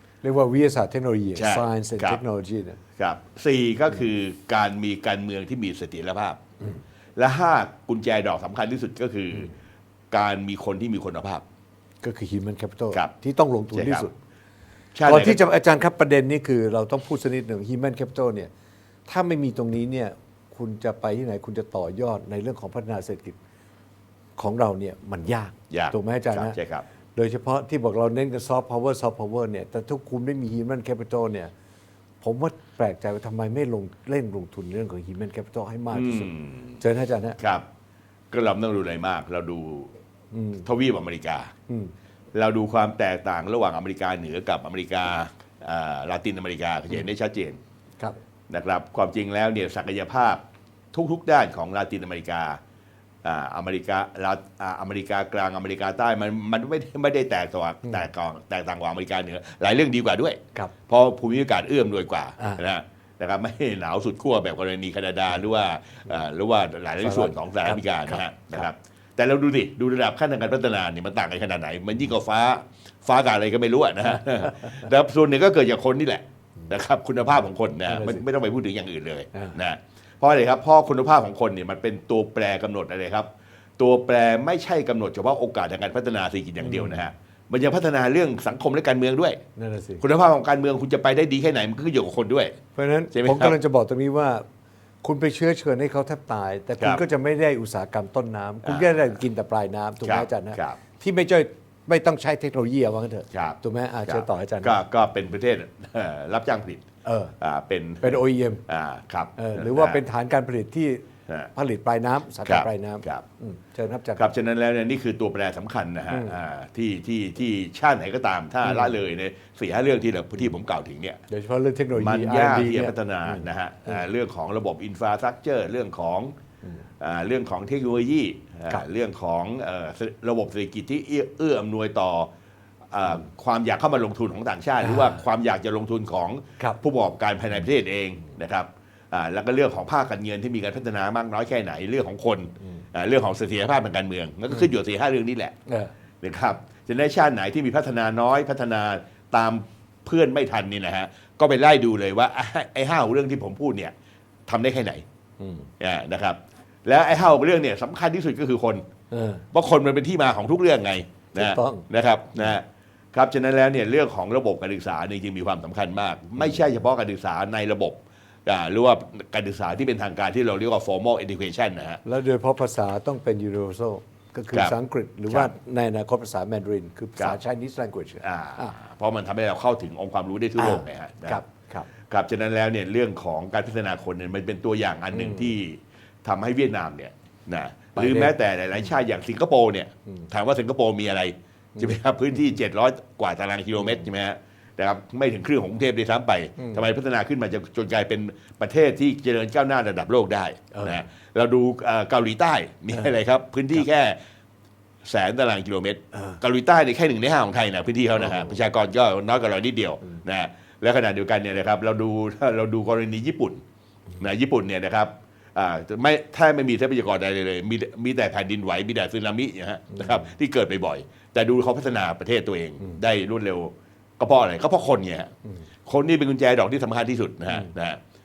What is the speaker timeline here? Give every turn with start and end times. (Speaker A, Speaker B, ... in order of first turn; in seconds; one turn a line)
Speaker A: 0.2-2.8
Speaker B: 1.4-2.2
Speaker B: 3.0-6.4
Speaker B: 7.2-9.5
Speaker B: 10.1-11.4
Speaker A: 12.0-14.2
Speaker B: 13.7-14.1
Speaker B: 14.9-15.4
Speaker A: 15.1-18.5
Speaker A: 19.1-23.4
Speaker A: 24.4-26.6
Speaker B: 25.7-26.8
Speaker A: 27.2-31.5
Speaker A: 32.2-37.4
Speaker B: 35.9-36.8
Speaker B: 37.4-37.7
Speaker B: 38.3-39.9
Speaker A: 40.3-40.7
Speaker B: 40.6-41.5
Speaker A: 41.7-41.9
Speaker B: 42.3-47.6
Speaker B: 48.5-50.4
Speaker B: 50.9-52.6
Speaker B: 53.2-89.4
Speaker A: 67.0-68.7
Speaker A: 74.1-74.8
Speaker A: 77.9-78.2
Speaker A: 86.6-87.0
Speaker A: 89.6-90.0
Speaker B: 90.0-92.6
Speaker A: 92.8-94.5
Speaker B: 93.1-93.6
Speaker A: 95.0-104.8
Speaker B: 98.6-99.0
Speaker B: 100.0-100.8
Speaker B: 103.3-106.8
Speaker A: 107.0-107.3
Speaker B: 107.4-110.0
Speaker A: 108.0-108.6
Speaker A: 109.4-114.3
Speaker B: 112.4-113.2
Speaker B: 114.2-121.2
Speaker A: 116.1-116.4
Speaker A: 118.6-119.0
Speaker A: 121.3-124.1
Speaker B: 122.0-126.3
Speaker B: 127.0-132.3
Speaker B: 132.9-145.6
Speaker A: 134.8-135.2
Speaker A: 145.7-145.9
Speaker B: 146.2-153.9
Speaker B: 154.5-155.0
Speaker A: 155.4-155.7
Speaker B: 155.8-158.8
Speaker A: 159.1-159.4
Speaker B: 159.5-172.0
Speaker A: 161.3-162.6
Speaker A: 172.1-178.8
Speaker B: 178.2-181.4
Speaker A: 180.6-181.9
Speaker B: 182.1-204.2
Speaker A: 185.1-185.6
Speaker A: 187.9-188.9
Speaker A: 191.8-192.6
Speaker A: 193.8-194.1
Speaker A: 196.6-196.9
Speaker A: 200.7-201.1
Speaker B: 205.0-213.6
Speaker A: 206.1-206.4
Speaker A: 208.2-208.6
Speaker B: 214.2-225.3
Speaker A: 219.9-220.3
Speaker B: 225.9-228.0